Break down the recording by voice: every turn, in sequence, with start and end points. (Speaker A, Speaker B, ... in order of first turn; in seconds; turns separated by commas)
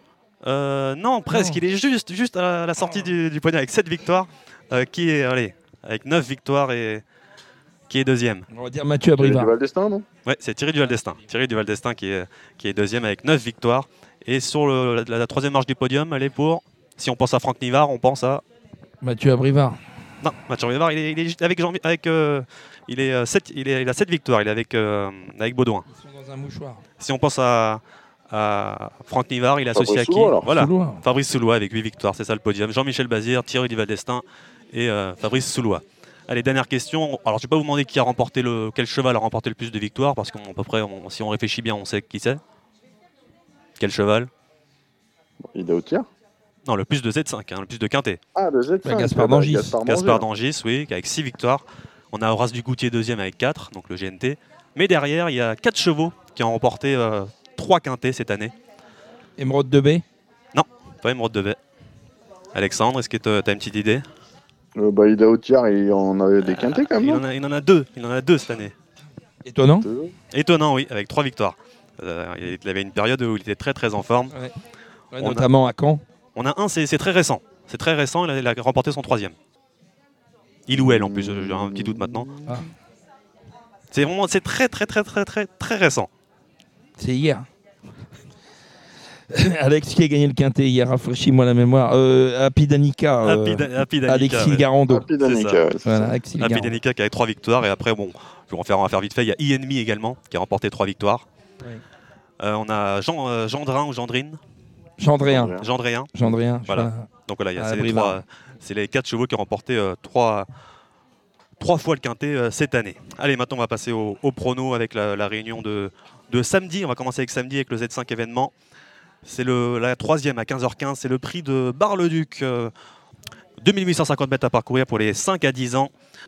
Speaker A: 0.4-7.0, Speaker B: 1.3-1.6, Speaker A: 7.9-8.5, Speaker B: 8.5-9.5, Speaker C: 9.2-10.1, Speaker A: 10.3-18.4, Speaker B: 19.0-19.8, Speaker A: 20.2-25.9, Speaker B: 25.9-26.8, Speaker A: 27.0-42.4, Speaker C: 29.7-30.4, Speaker B: 30.4-31.0, Speaker A: 43.8-44.3, Speaker C: 45.5-46.1, Speaker A: 46.7-48.2, Speaker C: 48.4-50.3, Speaker B: 48.8-49.8, Speaker A: 49.9-58.5, Speaker B: 59.4-60.0, Speaker A: 60.5-61.6, Speaker A: 62.5-64.0, Speaker C: 64.8-67.2, Speaker A: 66.5-68.7, Speaker B: 69.5-69.9, Speaker C: 69.8-70.1, Speaker A: 70.3-74.3, Speaker B: 75.1-76.0, Speaker A: 75.2-75.5, Speaker A: 76.4-79.3, Speaker A: 80.7-82.5, Speaker C: 80.7-82.5, Speaker A: 83.9-86.1, Speaker B: 87.0-87.5, Speaker B: 89.3-95.1, Speaker A: 93.2-94.7, Speaker C: 94.9-96.1, Speaker A: 95.2-95.6, Speaker B: 95.8-96.8, Speaker A: 96.4-101.2, Speaker A: 102.4-104.4, Speaker B: 105.0-105.5, Speaker C: 105.2-105.7, Speaker A: 105.6-106.1, Speaker B: 106.1-108.2, Speaker A: 106.7-110.5, Speaker A: 111.6-118.5, Speaker A: 119.2-122.7, Speaker A: 123.6-125.9